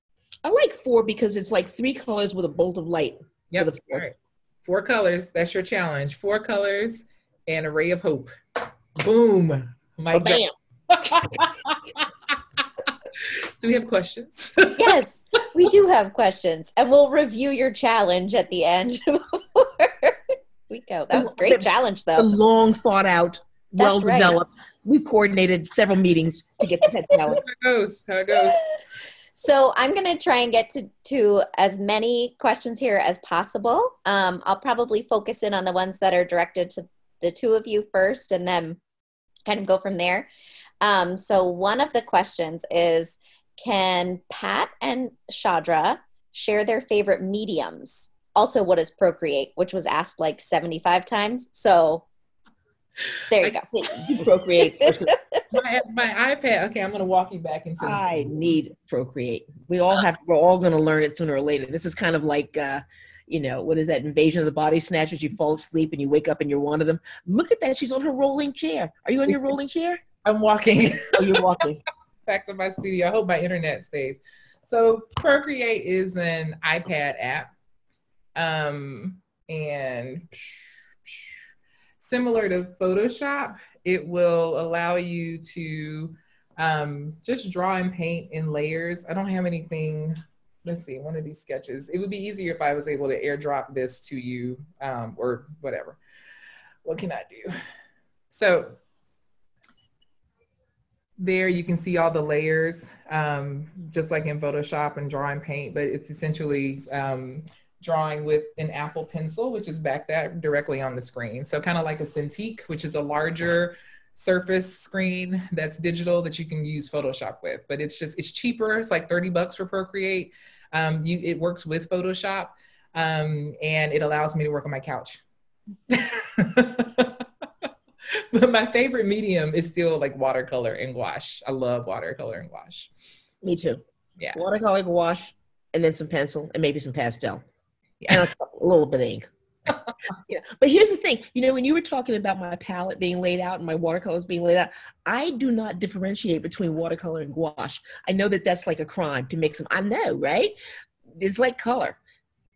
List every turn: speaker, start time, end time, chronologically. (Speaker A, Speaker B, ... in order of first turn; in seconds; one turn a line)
Speaker A: 0.5-4.1
Speaker B: 3.5-12.1
Speaker A: 10.1-11.2
Speaker B: 13.2-15.0
Speaker C: 14.8-20.2
Speaker C: 20.7-22.3
Speaker A: 21.1-27.4
Speaker C: 23.8-24.4
Speaker B: 27.2-28.6
Speaker C: 29.4-38.8
Speaker C: 39.5-40.3
Speaker C: 40.8-52.1
Speaker C: 53.3-53.6
Speaker A: 53.7-55.2
Speaker C: 54.6-55.4
Speaker B: 55.5-58.4
Speaker A: 57.8-70.0
Speaker B: 70.2-71.5
Speaker A: 71.1-71.8
Speaker B: 72.3-77.5
Speaker B: 78.4-81.4
Speaker B: 82.0-96.0
Speaker B: 96.8-97.6
Speaker B: 98.3-98.8
Speaker B: 101.2-125.2
Speaker B: 125.9-127.3
Speaker B: 128.1-132.9
Speaker A: 133.4-133.8
Speaker A: 134.3-137.4
Speaker B: 138.0-138.3
Speaker A: 138.1-139.3
Speaker A: 140.3-150.5
Speaker A: 151.2-152.0